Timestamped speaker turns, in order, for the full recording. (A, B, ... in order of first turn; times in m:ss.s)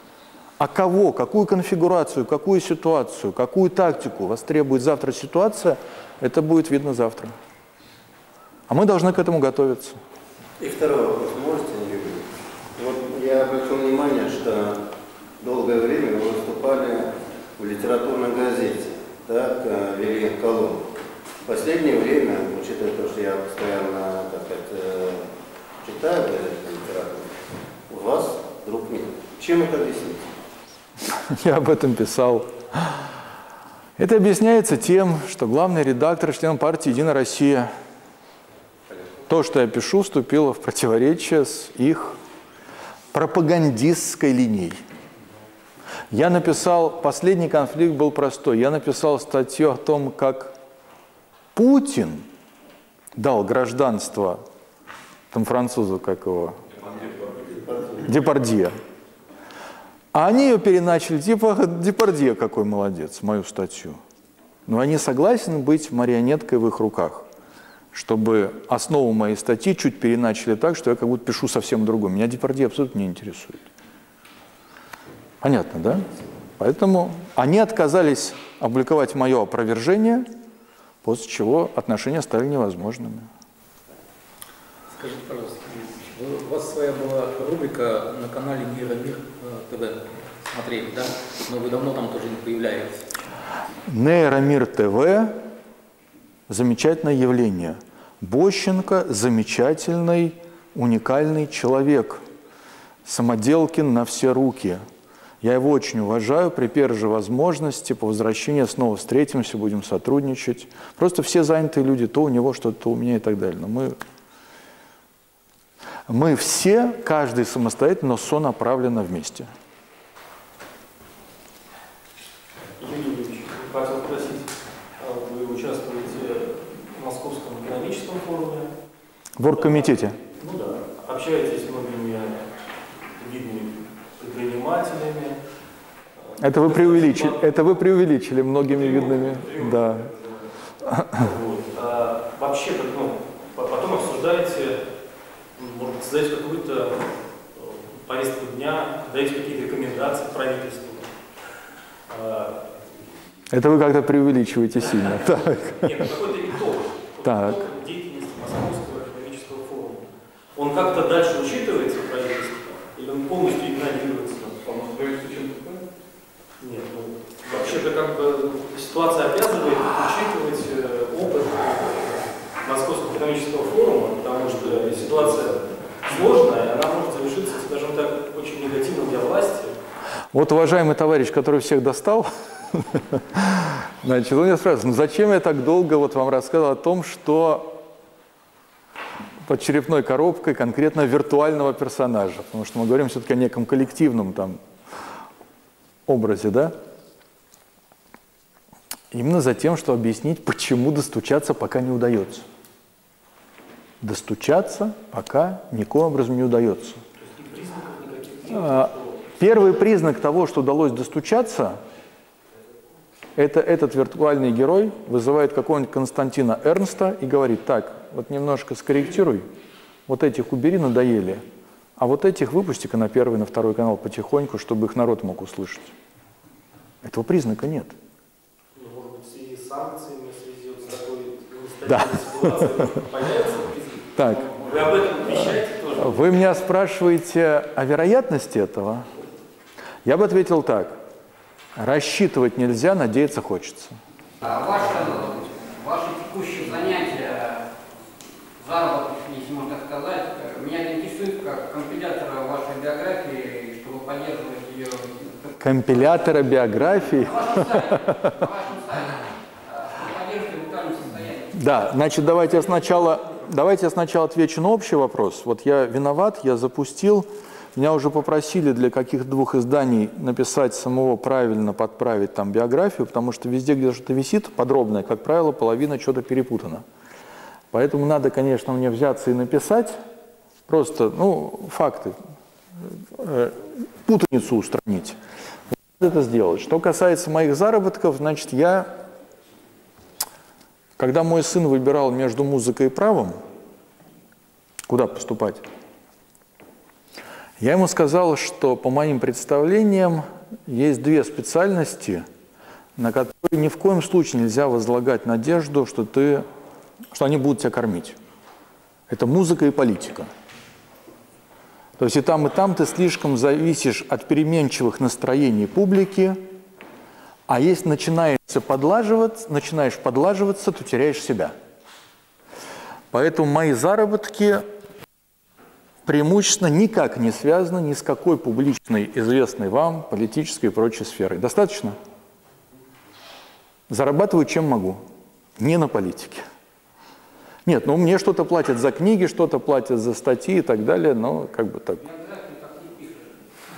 0:00.6-0:07.3 A
0:08.7-0:10.0 A
0:10.6-0:14.8 B
0:15.4-0:20.8 B
0:21.4-0:25.3 B
0:25.8-0:30.3 B
0:31.3-0:33.0 A
0:34.0-0:37.7 A
0:39.3-0:42.1 A
0:43.1-0:44.8 A
0:46.1-0:50.5 A
0:51.5-0:52.2 A
0:53.2-0:54.4 A
0:55.3-0:56.6 A
0:56.7-0:58.0 B
0:58.0-0:58.7 A
1:00.1-1:04.0 A
1:04.7-1:07.3 A
1:07.9-1:13.6 A
1:15.4-1:16.0 A
1:16.6-1:20.3 A
1:21.0-1:23.3 A
1:24.9-1:33.1 C
1:33.9-1:35.4 A
1:36.5-1:42.2 A
1:43.0-1:44.8 A
1:45.4-1:54.0 A
1:56.1-1:59.5 A
2:02.8-2:08.7 D
2:09.4-2:10.2 A
2:09.5-2:12.5 D
2:13.1-2:15.4 D
2:16.3-2:17.4 D
2:16.4-2:20.1 A
2:18.7-2:20.3 D
2:20.9-2:21.2 A
2:21.2-2:24.8 D
2:25.6-2:27.0 D
2:27.5-2:31.1 D
2:32.1-2:32.7 D
2:33.5-2:35.9 A
2:35.0-2:40.0 D
2:37.2-2:37.6 A
2:40.5-2:45.6 D
2:46.6-2:59.8 D
3:00.3-3:07.8 A
3:09.4-3:14.6 A
3:16.1-3:16.7 A
3:19.1-3:22.4 A
3:24.0-3:27.0 A
3:27.2-3:29.2 D
3:28.5-3:31.8 A
3:33.4-3:39.5 A
3:40.1-3:41.4 A
3:42.0-3:45.9 A
3:47.0-3:47.9 A
3:48.8-3:56.3 D
3:51.9-3:53.0 A
3:54.2-3:54.5 A
3:55.3-3:59.1 A
4:00.0-4:01.0 A
4:01.8-4:04.0 A
4:04.4-4:07.7 E
4:08.6-4:16.1 E
4:15.6-4:18.2 A
4:16.7-4:21.5 E
4:21.5-4:36.8 A
4:37.7-4:39.9 A
4:40.7-4:42.2 A
4:43.2-4:45.2 A
4:45.9-4:48.9 A
4:51.0-4:53.4 A
4:54.9-4:55.6 A
4:57.6-5:02.2 A
5:03.0-5:06.4 A
5:07.1-5:08.2 A
5:09.1-5:10.3 A
5:12.0-5:16.4 A
5:17.5-5:21.5 A
5:23.1-5:24.6 A
5:26.0-5:32.0 A
5:33.9-5:35.0 A
5:35.6-5:36.4 A
5:37.6-5:42.0 A
5:42.0-5:43.4 E